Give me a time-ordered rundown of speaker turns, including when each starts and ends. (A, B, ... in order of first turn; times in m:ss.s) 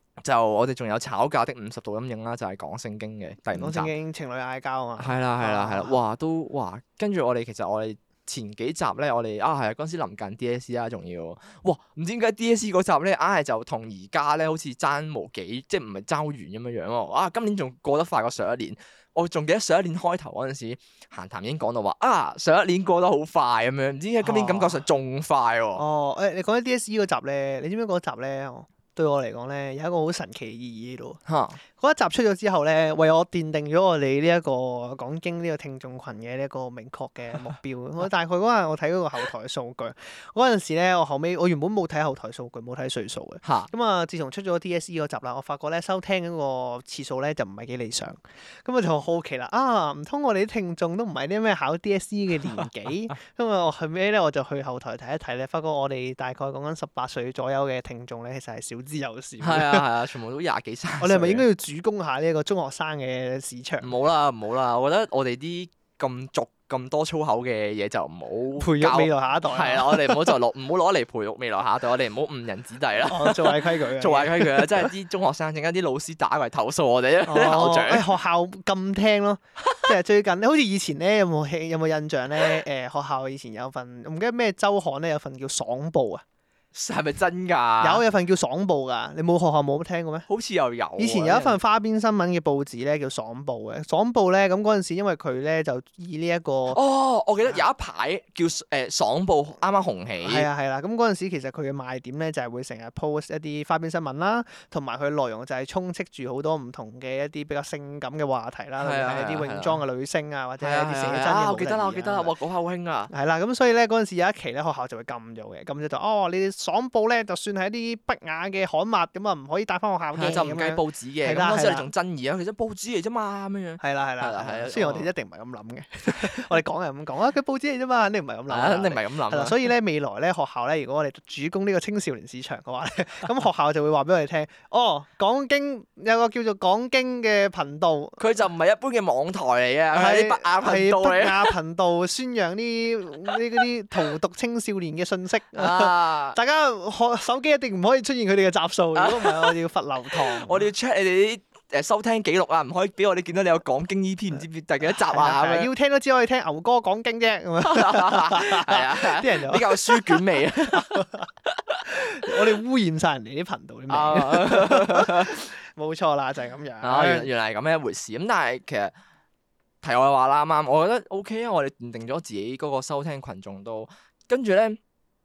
0:00.2-0:03.9 A
0:03.5-0:06.0 B
0:05.0-0:25.8 A
0:24.2-0:24.8 B
0:25.8-0:59.8 B
0:31.3-0:31.6 A
0:43.4-0:43.7 A
0:59.4-1:01.4 A
1:01.0-1:03.9 B
1:03.8-1:18.1 A
1:08.6-1:10.3 B
1:13.0-1:14.9 B
1:17.3-1:26.2 B
1:19.6-1:19.9 A
1:26.7-1:28.0 A
1:27.8-1:30.3 B
1:30.3-1:31.6 A
1:31.0-1:36.8 B
1:36.7-1:40.5 A
1:40.2-1:52.3 B
1:48.8-1:49.8 A
1:50.6-1:53.1 A
1:53.1-2:01.9 B
2:00.1-2:05.1 A
2:03.8-2:18.2 B
2:06.1-2:06.4 A
2:08.5-2:09.6 A
2:18.2-2:21.6 A
2:19.9-2:30.7 B
2:25.6-2:26.4 A
2:29.0-2:29.6 A
2:30.1-2:35.7 A
2:34.8-2:41.3 B
2:37.6-2:42.4 A
2:41.9-2:47.3 B
2:43.9-2:45.4 A
2:46.8-2:48.9 A
2:49.8-2:54.8 A